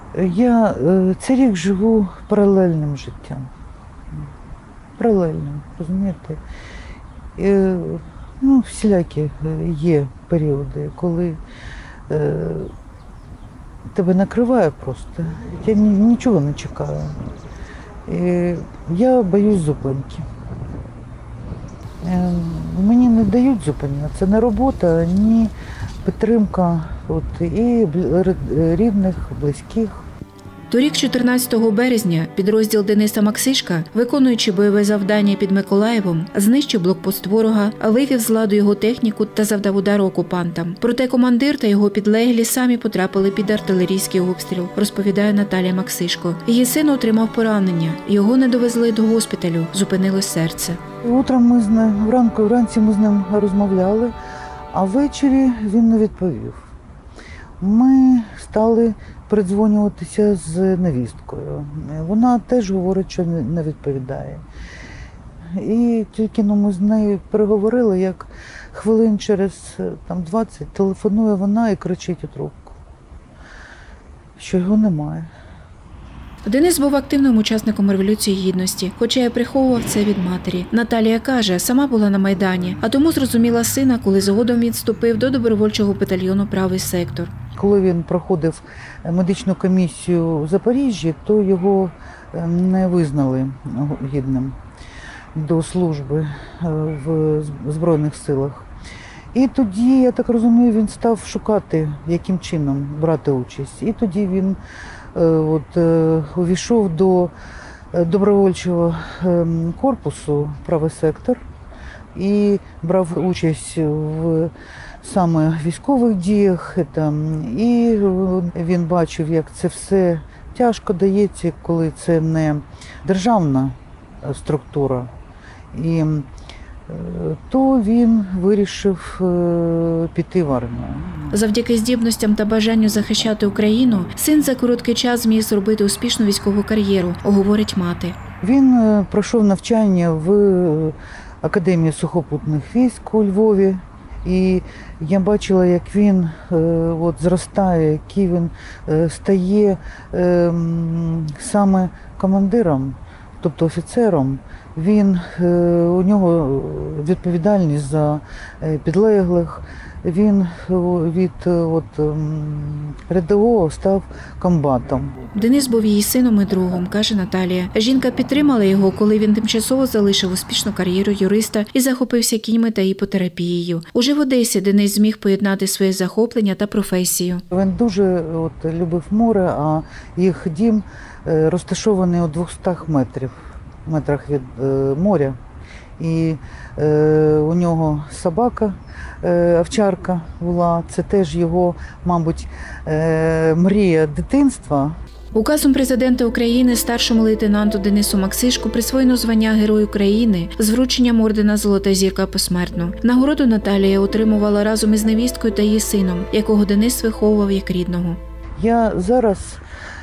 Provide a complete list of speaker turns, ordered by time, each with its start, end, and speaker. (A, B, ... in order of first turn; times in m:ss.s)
0:00.1-0:03.5 A
0:05.0-0:06.4 A
0:07.4-0:11.4 A
0:12.1-0:12.7 A
0:13.9-0:17.3 A
0:18.1-0:20.3 A
0:22.0-0:25.5 A
0:26.0-0:30.1 A
0:30.7-0:50.8 B
0:51.0-0:54.1 A
0:54.7-0:56.7 A
0:57.6-1:04.4 A
1:05.5-1:12.8 A
1:14.4-1:15.3 A
1:16.4-1:27.3 B
1:27.5-1:34.6 A
1:35.3-1:38.7 A
1:39.3-1:44.6 A
1:45.1-1:47.3 A
1:47.9-1:51.4 A
1:52.1-2:05.1 A
2:05.7-2:06.3 A
2:06.9-2:11.3 A
2:11.3-2:18.2 B
2:18.4-2:45.2 A
2:45.3-2:57.4 B
2:57.5-3:05.4 A
3:06.0-3:15.0 A
3:15.3-3:28.2 B
3:28.6-3:29.6 A